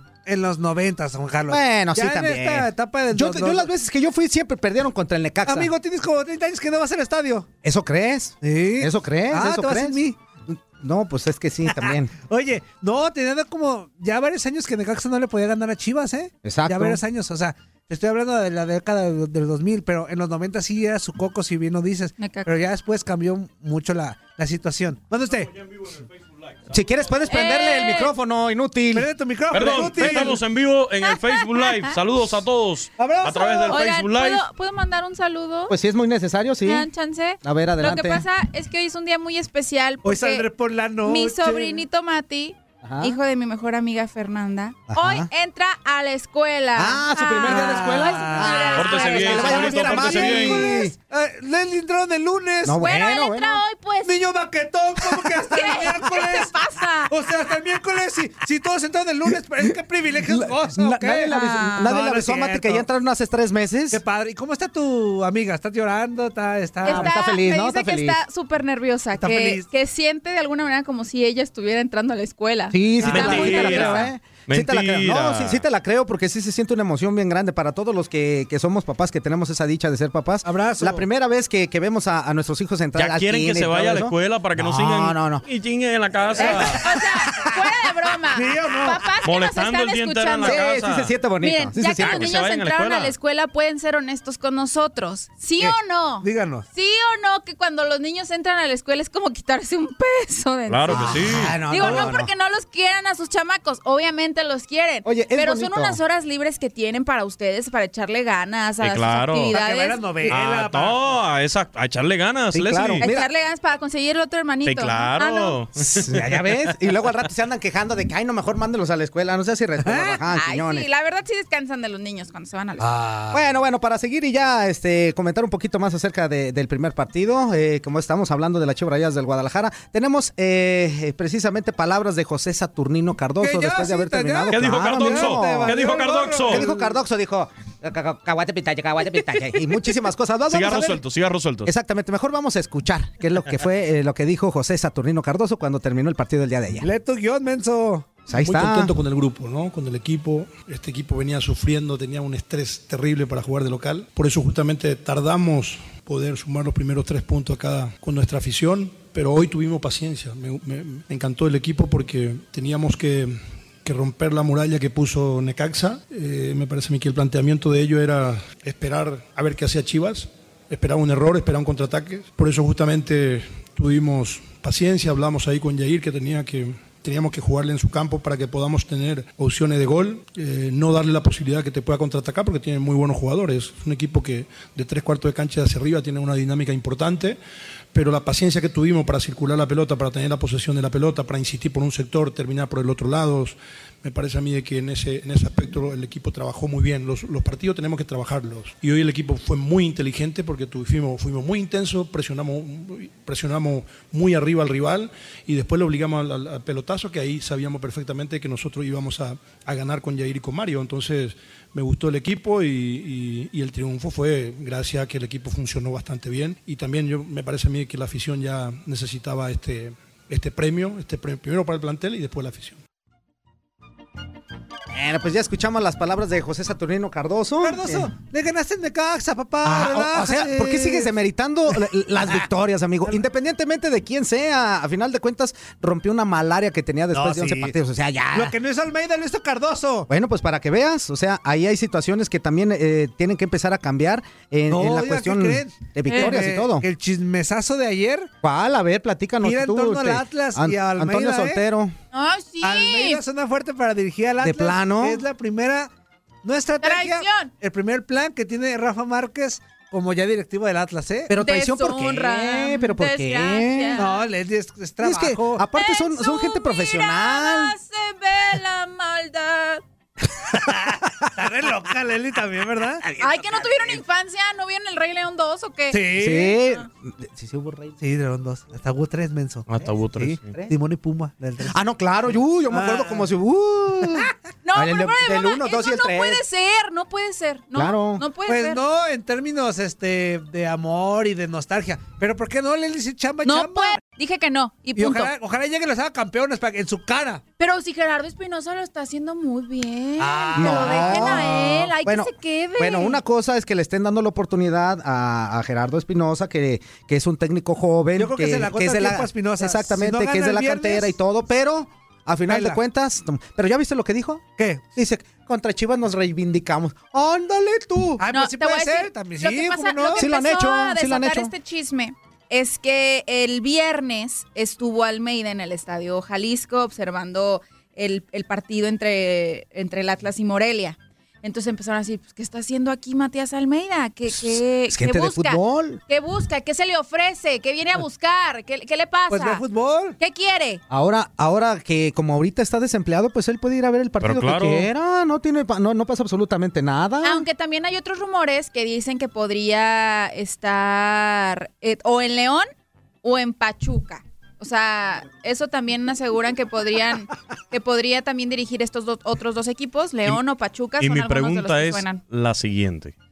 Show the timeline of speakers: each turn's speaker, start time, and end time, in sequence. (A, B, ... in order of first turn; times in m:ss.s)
0:00.2-0:03.7 A
0:01.5-0:05.7 B
0:05.4-0:07.5 A
0:07.6-0:12.1 B
0:08.4-0:10.2 A
0:11.7-0:25.5 A
0:16.4-0:17.0 B
0:22.2-0:22.5 C
0:25.3-0:27.1 D
0:26.7-0:30.4 B
0:27.3-0:28.1 C
0:28.9-0:30.4 A
0:29.5-0:34.4 D
0:31.0-0:31.9 C
0:33.0-0:33.8 A
0:33.7-0:35.7 C
0:35.7-0:36.9 B
0:36.6-0:40.5 C
0:37.4-0:38.2 B
0:40.0-0:41.8 A
0:41.0-0:50.9 C
0:42.8-0:43.2 B
0:44.9-0:45.3 B
0:46.8-0:50.9 B
0:47.4-0:52.8 A
0:48.7-0:50.8 D
0:52.6-0:53.6 B
0:52.8-0:54.2 C
0:54.0-0:56.6 A
0:55.5-0:57.1 C
0:57.1-1:02.8 A
1:00.2-1:04.0 B
1:01.3-1:01.9 C
1:03.9-1:07.2 A
1:06.8-1:14.1 C
1:06.8-1:08.2 B
1:09.2-1:09.7 A
1:12.7-1:25.4 B
1:13.0-1:14.1 A
1:13.0-1:15.6 D
1:20.4-1:21.0 A
1:23.0-1:26.8 D
1:26.4-1:26.8 B
1:26.4-1:30.6 C
1:26.4-1:26.8 A
1:28.3-1:29.1 A
1:29.2-1:31.1 D
1:30.4-1:32.4 B
1:31.4-1:50.3 C
1:31.9-1:33.1 D
1:36.2-1:36.6 A
1:40.7-1:41.6 D
1:40.9-1:42.3 B
1:41.8-1:42.1 A
1:45.0-1:46.0 B
1:48.8-1:49.5 D
1:49.5-1:51.0 A
1:50.3-1:53.1 D
1:52.5-1:53.3 B
1:53.0-1:55.6 C
1:54.6-1:56.7 D
1:55.8-2:00.9 B
1:59.8-2:00.2 A
2:00.3-2:02.9 C
2:02.8-2:03.4 A
2:03.3-2:21.0 B
2:13.4-2:16.9 A
2:14.5-2:16.6 D
2:20.5-2:21.7 D
2:21.6-2:26.9 B
2:26.8-2:28.2 A
2:28.3-2:28.9 B
2:28.3-3:07.4 E
3:07.9-3:42.8 E
3:44.9-3:48.1 B
3:47.6-3:51.1 A
3:49.6-3:58.5 B
3:57.1-3:57.7 A
3:58.3-4:00.1 A
4:00.1-4:06.8 B
4:04.7-4:08.3 A
4:06.1-4:06.4 C
4:08.4-4:11.9 B
4:09.4-4:11.6 A
4:12.1-4:13.2 C
4:12.6-4:15.9 A
4:14.4-4:15.2 B
4:16.4-4:21.3 A
4:16.8-4:17.5 C
4:21.3-4:24.1 B
4:21.3-4:24.2 C
4:24.0-4:25.6 A
4:25.0-4:27.8 B
4:25.7-4:29.8 C
4:30.5-4:33.1 A
4:33.0-4:34.0 B
4:33.2-4:36.1 C
4:35.9-4:36.6 A
4:36.2-4:38.0 B
4:38.0-4:39.6 A
4:39.7-4:40.5 D
4:40.2-4:41.8 A
4:40.4-4:40.7 B
4:41.7-4:46.4 B
4:42.7-4:43.3 A
4:44.6-4:48.8 C
4:47.7-4:48.2 B
4:48.5-4:54.0 A
4:53.4-4:55.3 C
4:55.0-4:57.4 A
4:57.6-5:03.2 C
5:00.2-5:01.7 A
5:00.5-5:18.2 B
5:08.2-5:11.1 A
5:12.5-5:12.8 A
5:14.6-5:14.8 A
5:18.2-5:20.3 A
5:18.3-5:39.6 C
5:20.2-5:21.5 B
5:34.3-5:36.0 B
5:39.3-5:40.2 A
5:40.2-5:40.8 C
5:40.9-5:47.5 B
5:44.2-5:44.9 D
5:47.2-5:52.7 C
5:53.2-6:02.2 C
6:01.0-6:03.1 D